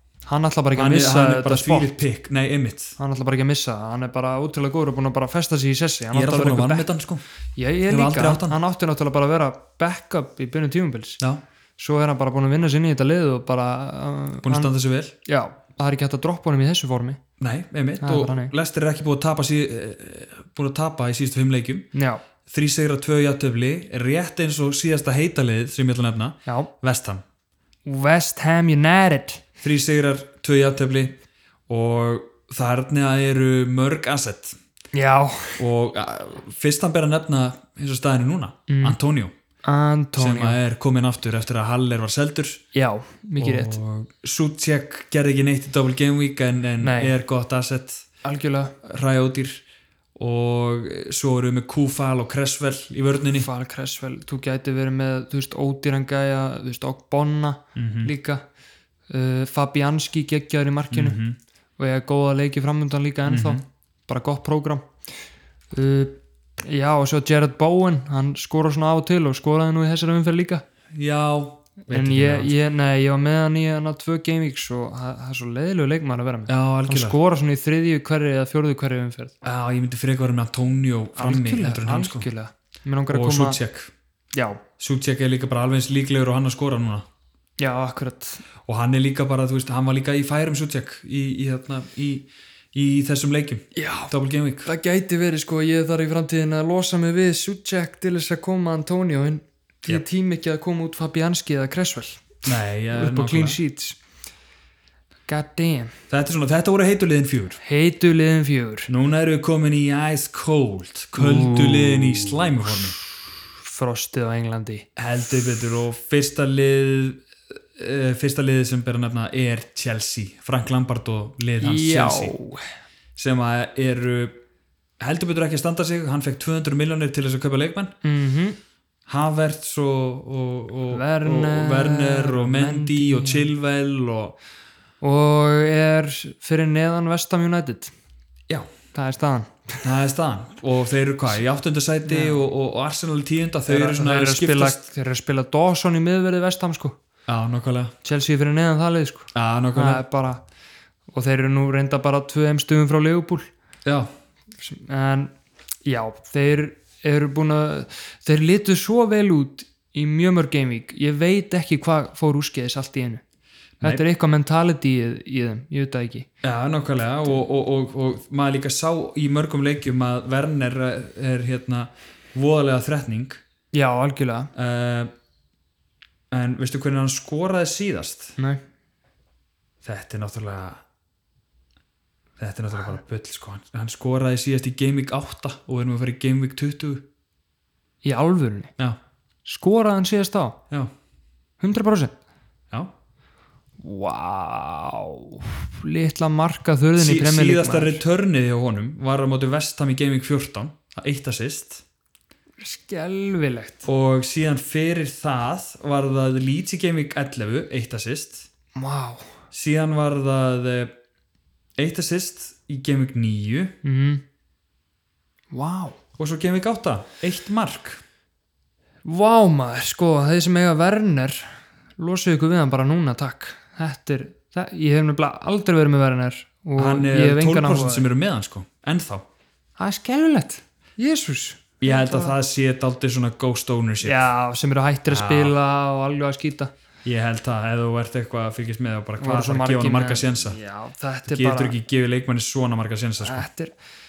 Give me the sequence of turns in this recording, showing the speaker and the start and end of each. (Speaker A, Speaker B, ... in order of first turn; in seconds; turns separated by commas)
Speaker A: 0.2-1.9, Speaker B: 0.7-3.0, Speaker A: 3.0-6.9, Speaker B: 6.1-7.2, Speaker A: 7.6-11.2, Speaker B: 7.9-8.6, Speaker A: 11.8-14.7, Speaker B: 14.4-15.1, Speaker A: 15.2-17.2, Speaker B: 17.4-21.9, Speaker A: 18.0-18.5, Speaker A: 21.9-22.2, Speaker B: 22.5-27.2, Speaker A: 26.4-26.7, Speaker A: 27.9-29.4, Speaker B: 29.6-31.2, Speaker B: 31.7-34.6, Speaker A: 34.9-35.6, Speaker B: 35.6-39.3, Speaker A: 38.7-39.0, Speaker A: 39.6-40.6, Speaker B: 40.2-42.6, Speaker A: 42.7-43.8, Speaker B: 43.4-48.1, Speaker A: 46.8-47.1, Speaker A: 48.2-48.8, Speaker B: 48.8-49.6, Speaker B: 50.1-53.5, Speaker A: 53.3-58.4, Speaker B: 57.7-58.1, Speaker A: 59.1-61.2, Speaker B: 60.9-61.4, Speaker A: 61.8-64.9, Speaker B: 63.3-63.6, Speaker A: 65.7-70.6, Speaker B: 70.9-72.5, Speaker A: 71.9-79.3, Speaker B: 76.5-77.2, Speaker B: 79.4-82.3, Speaker A: 81.2-83.6, Speaker B: 83.1-83.9, Speaker A: 84.3-84.6, Speaker B: 84.8-87.0, Speaker A: 87.6-88.4, Speaker B: 88.7-94.7, Speaker A: 93.7-94.1, Speaker A: 94.6-104.0, Speaker B: 102.4-103.6, Speaker A: 105.3-105.9, Speaker B: 106.1-107.6, Speaker A: 107.6-108.9, Speaker B: 108.9-113.0, Speaker A: 111.1-114.9, Speaker B: 115.0-117.2, Speaker B: 117.7-122.3, Speaker A: 121.6-122.6, Speaker B: 123.2-124.4, Speaker B: 125.0-127.9, Speaker A: 128.0-128.6, Speaker B: 129.1-134.4, Speaker A: 130.9-133.5, Speaker A: 135.0-137.9, Speaker A: 138.9-139.9, Speaker B: 139.8-144.8, Speaker A: 142.1-142.4, Speaker A: 143.7-146.9, Speaker B: 147.3-147.9, Speaker A: 148.0-150.4, Speaker B: 149.3-150.0, Speaker A: 151.1-153.5, Speaker B: 153.8-154.1, Speaker A: 154.6-155.3, Speaker A: 155.8-163.2, Speaker A: 163.8-166.3, Speaker B: 166.4-173.4, Speaker A: 173.7-174.5, Speaker B: 174.5-175.1, Speaker B: 176.3-178.4, Speaker B: 179.8-180.8, Speaker B: 182.4-187.0, Speaker A: 188.0-188.7, Speaker A: 189.4-190.6, Speaker A: 191.6-192.2, Speaker A: 193.8-198.0, Speaker B: 197.0-201.8, Speaker A: 202.6-203.8, Speaker B: 203.8-208.5, Speaker A: 208.7-209.2, Speaker B: 209.5-210.9, Speaker B: 211.8-213.7, Speaker A: 213.8-214.2, Speaker A: 215.5-216.0, Speaker B: 216.2-218.0, Speaker A: 219.0-228.1, Speaker B: 226.8-229.2, Speaker A: 229.8-232.3, Speaker B: 231.8-234.2, Speaker A: 234.0-236.7, Speaker B: 235.1-235.5, Speaker B: 237.0-240.6, Speaker A: 239.2-241.8, Speaker B: 241.3-243.5, Speaker A: 243.2-243.7